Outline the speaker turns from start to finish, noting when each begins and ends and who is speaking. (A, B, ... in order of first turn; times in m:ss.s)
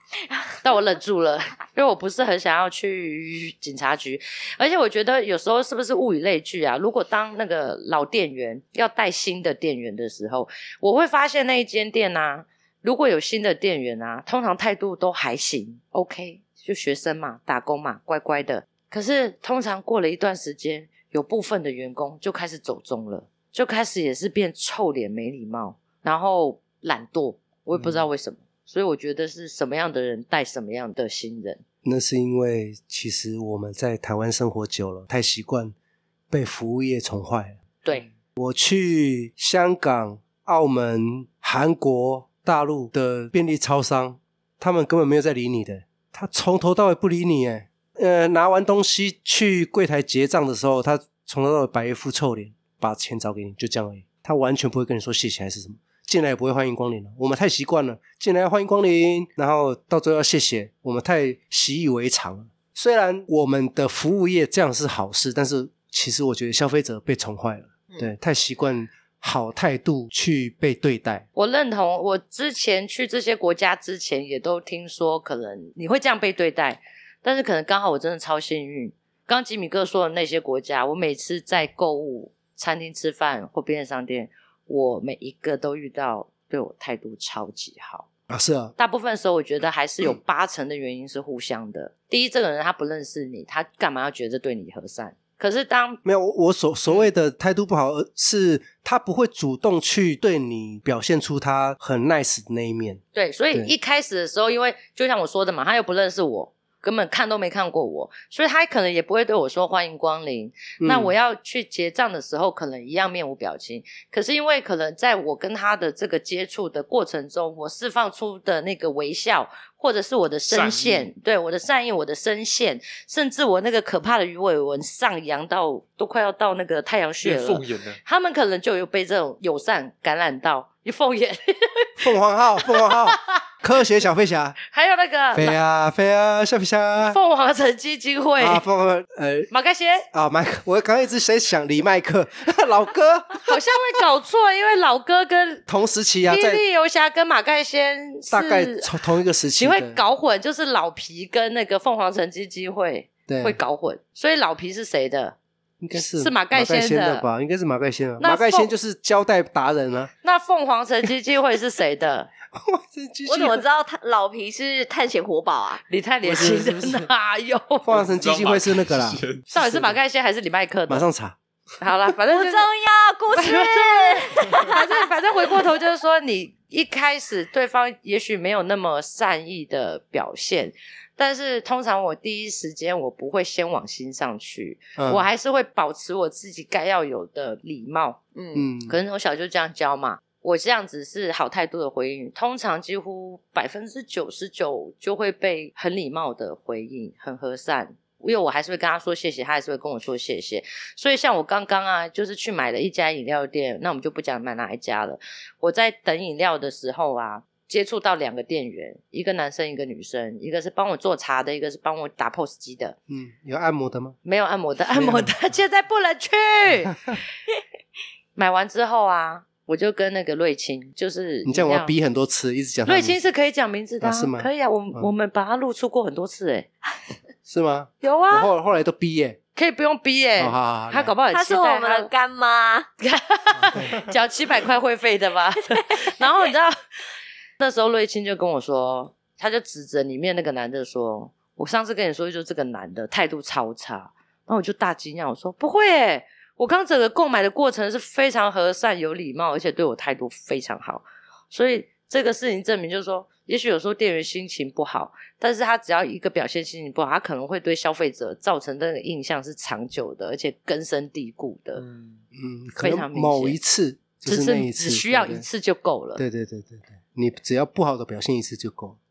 0:00.3-0:00.6 A
0:00.6-0:31.6 B
0:31.8-0:35.8 C
0:36.3-0:37.6 C
0:38.4-1:11.3 C
1:11.4-1:28.1 B
1:28.3-1:28.7 C
1:28.8-1:36.0 B
1:36.0-1:43.0 C
1:43.1-2:11.9 B
1:50.8-1:51.1 C
2:00.5-2:01.1 D
2:07.2-2:08.0 D
2:12.0-2:14.6 C
2:12.7-2:13.4 B
2:14.7-2:15.6 B
2:15.3-2:17.2 C
2:17.0-2:18.6 B
2:18.4-2:19.5 C
2:19.5-2:20.1 B
2:20.1-2:23.5 C
2:23.4-2:25.7 B
2:25.7-2:26.6 C
2:26.3-2:28.9 B
2:28.3-2:30.0 C
2:29.6-2:35.4 B
2:33.3-2:33.6 C
2:35.8-2:40.1 C
2:35.9-2:37.2 B
2:38.2-2:38.7 B
2:40.2-2:42.3 B
2:42.5-2:43.6 C
2:43.3-2:45.8 A
2:45.9-2:47.9 B
2:46.2-2:47.1 C
2:47.8-2:49.2 C
2:47.9-2:49.9 D
2:49.5-2:51.1 B
2:50.9-2:51.4 C
2:51.8-2:52.7 B
2:52.3-2:54.9 A
2:53.3-3:08.2 B
3:05.0-3:05.2 C
3:08.4-3:08.7 A
3:08.5-3:09.0 C
3:08.9-3:33.0 B
3:33.1-3:34.2 C
3:34.2-3:37.2 B
3:34.9-3:35.3 C
3:38.4-3:41.9 B
3:41.4-3:43.2 C
3:42.9-3:46.7 B
3:44.0-3:45.1 C
3:47.5-3:49.4 C
3:48.0-3:48.5 B
3:49.6-3:52.1 B
3:50.4-3:51.1 C
3:51.3-3:52.9 A
3:53.0-3:56.8 B
3:53.6-3:54.0 C
3:57.6-4:21.8 B
4:21.8-4:22.2 D
4:22.3-4:25.5 C
4:22.8-4:23.6 B
4:24.2-4:26.2 B
4:26.2-4:29.0 C